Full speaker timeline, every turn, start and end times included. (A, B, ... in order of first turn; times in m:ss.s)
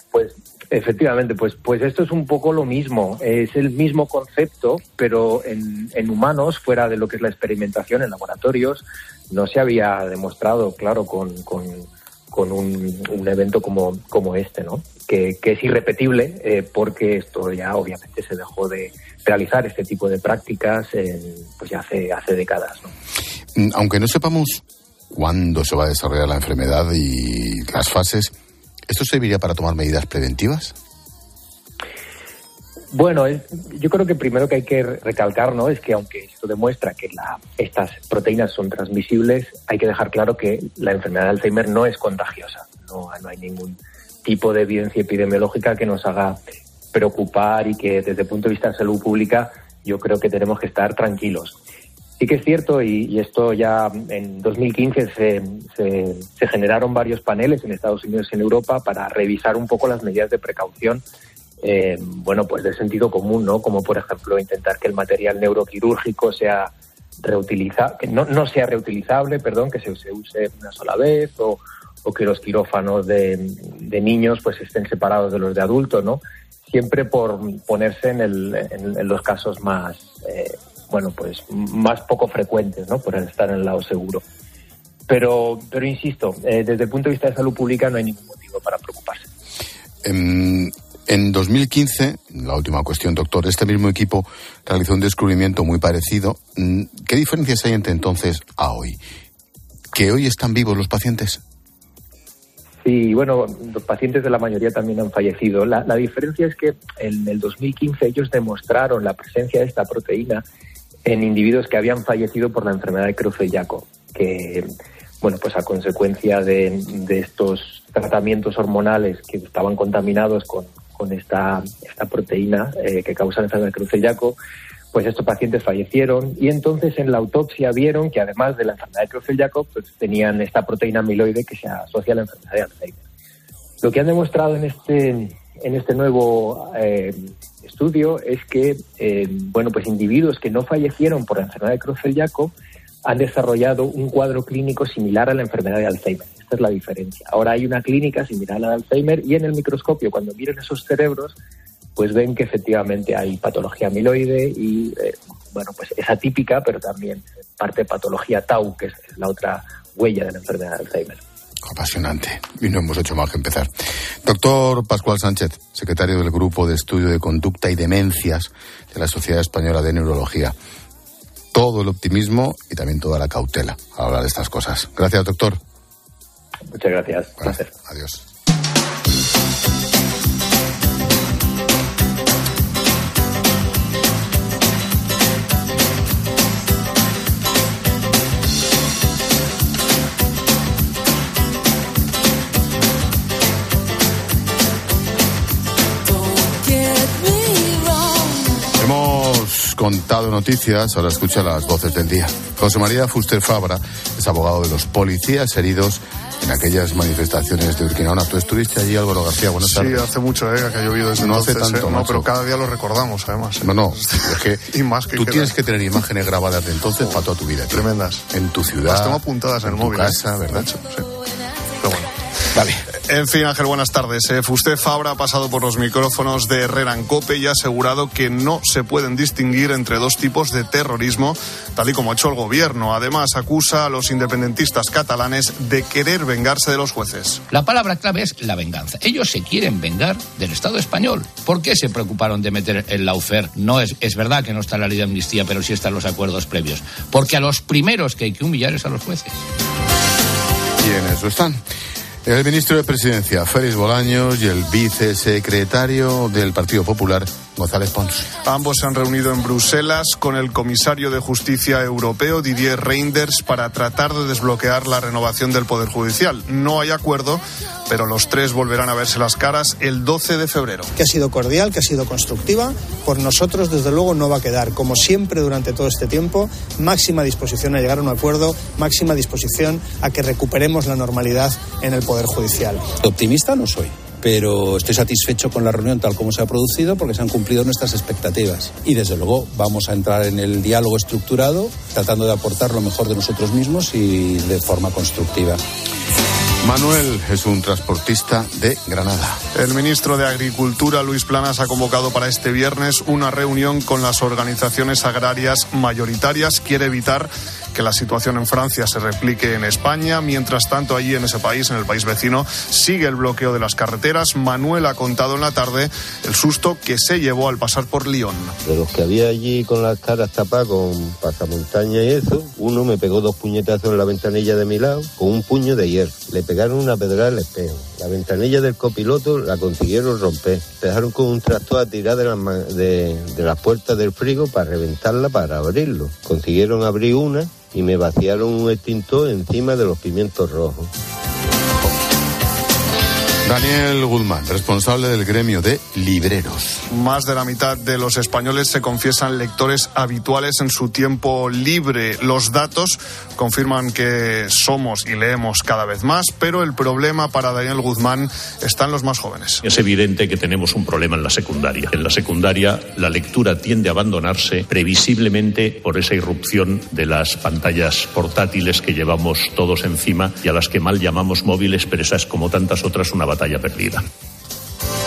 0:00.1-0:22.9 A
0:23.5-0:28.3 B
0:28.9-0:30.7 B
0:32.9-0:46.4 A
0:46.9-0:51.5 A
0:52.2-1:01.0 A
1:01.6-1:24.2 A
1:25.1-1:29.2 A
1:30.0-1:39.0 B
1:39.9-1:41.4 B
1:42.8-1:50.4 A
1:51.0-1:54.7 A
1:55.2-2:04.4 A
2:04.9-2:13.0 A
2:13.8-2:22.5 A
2:23.0-2:31.4 A
2:32.0-2:41.2 A
2:41.6-2:43.7 B
2:44.2-2:50.5 B
2:51.5-2:55.6 B
2:56.7-2:57.7 A
2:57.4-2:58.2 B
3:18.8-3:30.1 B
3:29.6-3:34.2 C
3:31.2-3:32.3 B
3:33.6-3:40.7 B
3:34.7-3:35.5 C
3:37.7-3:38.2 C
3:38.8-3:41.0 C
3:41.8-3:42.1 C
3:42.5-3:42.8 B
3:43.1-3:57.4 C
3:57.5-4:09.3 D
4:10.8-4:11.6 B
4:12.2-4:18.3 B
4:18.4-4:30.9 C
4:31.0-4:43.0 E
4:43.2-4:43.7 F
4:44.3-4:55.6 F
4:56.6-4:59.4 B
4:59.5-5:18.5 C
5:18.6-5:40.9 G
5:43.4-5:46.8 B
5:46.9-5:59.6 C
5:59.6-6:14.0 H